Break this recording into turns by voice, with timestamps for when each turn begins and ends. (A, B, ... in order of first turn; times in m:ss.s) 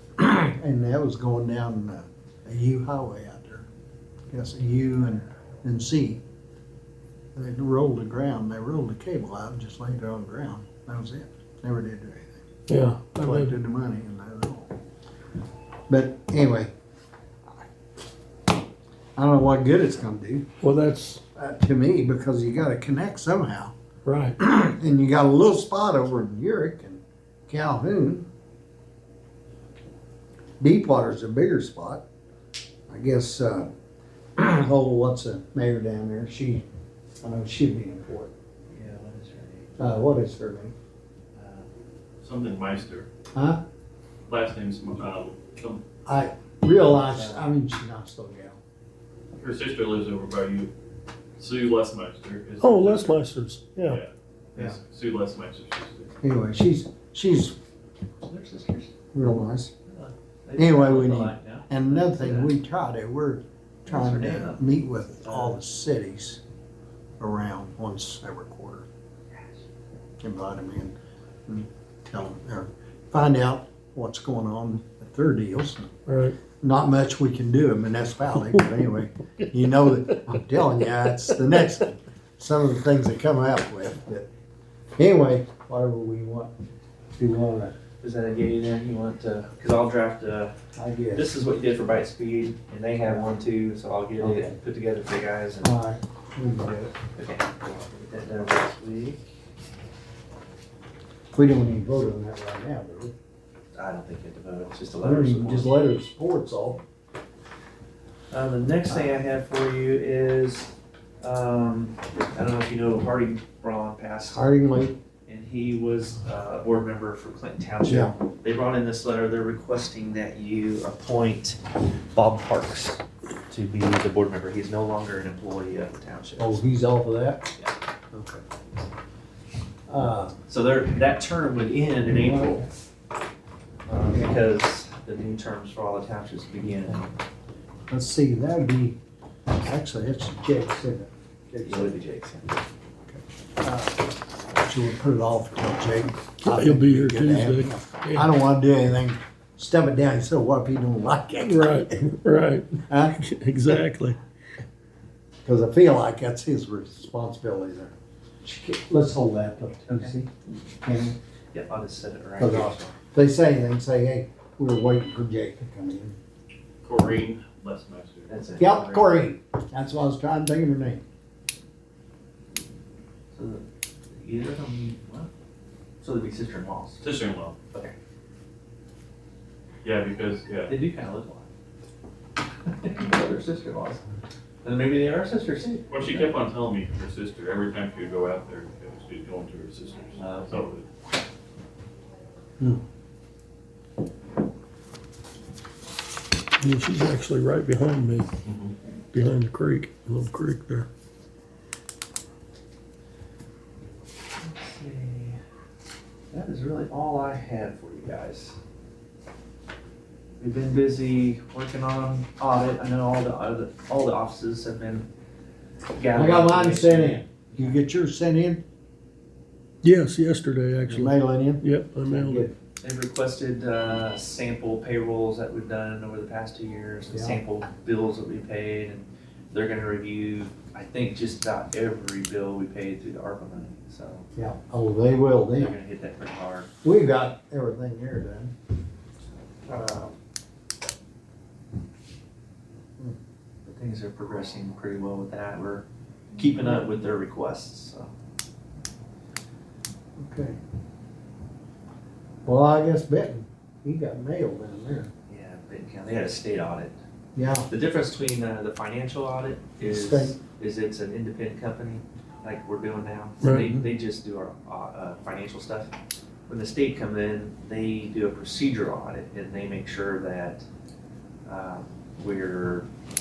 0:00.2-0:03.7 A
0:04.3-0:06.2 A
0:07.4-0:12.5 A
0:12.7-0:13.5 B
0:13.0-0:14.7 A
0:15.9-0:16.7 A
0:19.2-0:20.5 A
0:20.6-0:21.2 B
0:21.4-0:23.7 A
0:24.0-0:24.4 B
0:24.4-0:28.3 A
0:30.6-0:32.0 A
0:32.9-0:33.7 A
0:34.4-0:36.6 A
0:37.2-0:38.3 A
0:38.7-0:40.1 C
0:39.8-0:40.8 A
0:41.4-0:41.7 C
0:42.2-0:43.1 D
0:43.3-0:43.6 A
0:44.3-0:45.8 D
0:46.0-0:48.6 A
0:47.0-0:47.5 C
0:49.4-0:50.7 D
0:51.4-0:53.2 D
0:52.6-0:54.0 B
0:53.9-0:56.1 D
0:56.2-0:57.6 A
0:58.2-0:58.9 C
0:59.1-0:59.7 A
0:59.9-1:02.5 C
1:00.6-1:06.4 A
1:03.9-1:05.6 C
1:07.2-1:08.8 A
1:10.2-1:10.9 A
1:11.5-1:15.9 A
1:16.1-1:16.4 B
1:16.6-1:24.3 A
1:25.0-1:26.5 A
1:27.2-1:27.8 A
1:28.0-1:30.5 C
1:30.8-1:31.3 A
1:31.1-1:35.7 C
1:33.0-1:33.3 A
1:34.2-1:34.6 A
1:35.6-1:36.9 A
1:36.9-1:39.2 C
1:41.4-1:43.1 A
1:43.7-1:45.7 C
1:45.0-1:46.8 A
1:48.3-1:54.5 C
1:54.2-1:55.0 A
1:55.3-2:01.6 C
1:57.8-1:58.2 A
2:02.1-2:06.6 C
2:06.4-2:07.5 A
2:08.1-2:08.4 A
2:09.9-2:10.4 A
2:10.5-2:12.7 C
2:12.2-2:12.7 A
2:13.9-2:17.1 C
2:14.1-2:14.4 A
2:17.9-2:19.0 A
2:19.5-2:22.0 A
2:21.6-2:22.6 C
2:23.1-2:32.0 A
2:26.4-2:28.3 B
2:31.6-2:34.2 B
2:32.9-2:33.2 A
2:35.4-2:40.3 A
2:39.9-2:40.2 C
2:40.8-2:41.2 A
2:41.5-2:43.0 C
2:42.4-2:46.2 A
2:46.8-2:48.6 D
2:48.3-2:49.1 C
2:48.6-2:51.0 A
2:53.3-2:55.3 C
2:56.0-2:57.0 C
2:57.0-2:57.6 D
2:59.8-3:00.7 D
3:00.7-3:01.5 C
3:02.6-3:04.1 C
3:04.6-3:06.3 C
3:05.9-3:10.8 D
3:10.2-3:10.7 C
3:16.6-3:18.3 B
3:18.4-3:18.8 D
3:19.1-3:20.9 B
3:24.4-3:25.4 C
3:26.3-3:28.6 C
3:30.4-3:35.1 C
3:36.0-3:37.8 C
3:36.1-3:38.6 A
3:39.8-3:42.4 B
3:40.9-3:42.6 A
3:42.8-3:54.3 C
3:47.1-3:47.4 A
3:54.4-3:55.8 A
3:55.6-3:56.7 C
3:56.8-3:58.5 A
3:59.7-4:00.2 A
4:03.7-4:08.1 C
4:10.2-4:10.6 A
4:12.4-4:15.1 A
4:15.3-4:17.0 C
4:17.4-4:17.7 A
4:17.7-4:25.9 C
4:19.8-4:20.4 A
4:23.6-4:23.9 A
4:26.5-4:30.7 C
4:31.5-4:32.9 C